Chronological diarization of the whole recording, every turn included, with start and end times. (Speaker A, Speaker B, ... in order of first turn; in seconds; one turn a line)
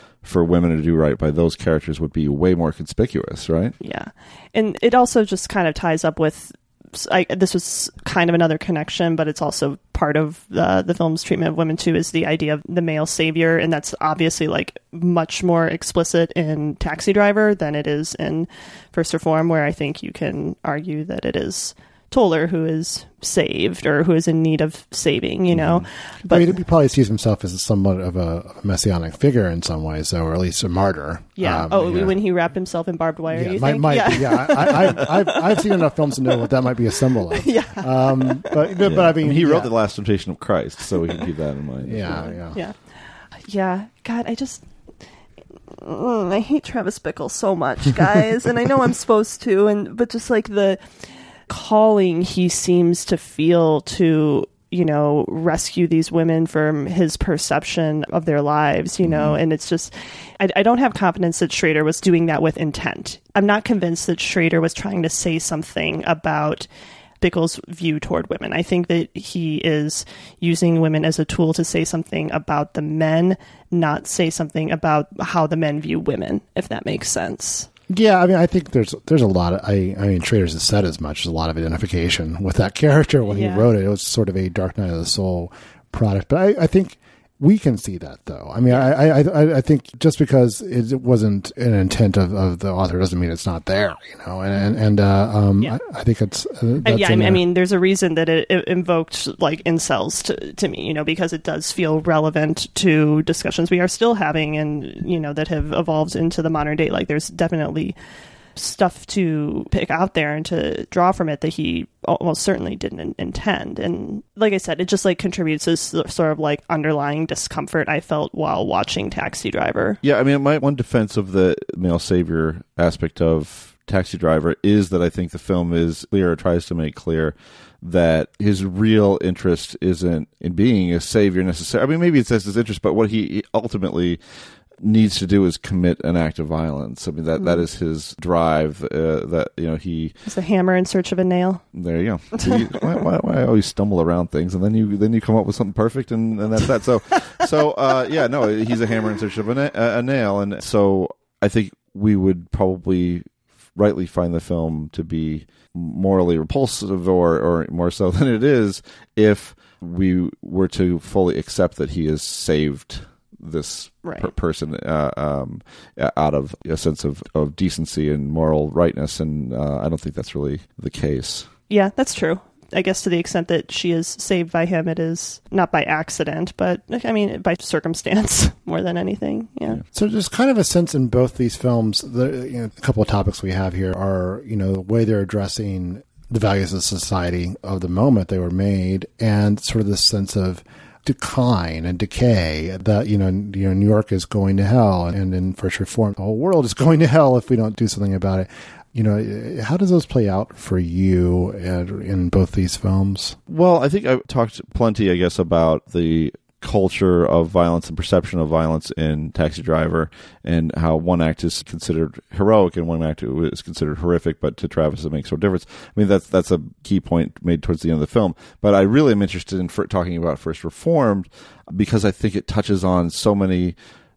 Speaker A: 0.2-3.7
Speaker B: 3.8-26.5
Speaker A: 25.5-25.8
Speaker C: 26.3-32.1
Speaker B: 31.4-35.7
Speaker C: 33.3-39.7
Speaker B: 37.3-38.8
Speaker A: 38.8-42.3
Speaker C: 41.8-42.6
Speaker B: 42.3-42.7
Speaker B: 43.4-44.6
Speaker B: 45.7-50.8
Speaker B: 51.5-66.7
Speaker A: 59.0-59.4
Speaker B: 67.2-77.7
Speaker C: 77.9-97.4
Speaker B: 83.3-83.7
Speaker B: 96.8-108.0
Speaker B: 108.5-120.0
Speaker A: 120.0-134.2
Speaker A: 134.8-140.2
Speaker B: 137.4-137.6
Speaker B: 140.3-141.6
Speaker A: 141.7-153.2
Speaker A: 153.8-171.5
Speaker B: 164.0-164.3
Speaker B: 171.7-179.8
Speaker C: 179.9-203.4
Speaker A: 203.5-223.8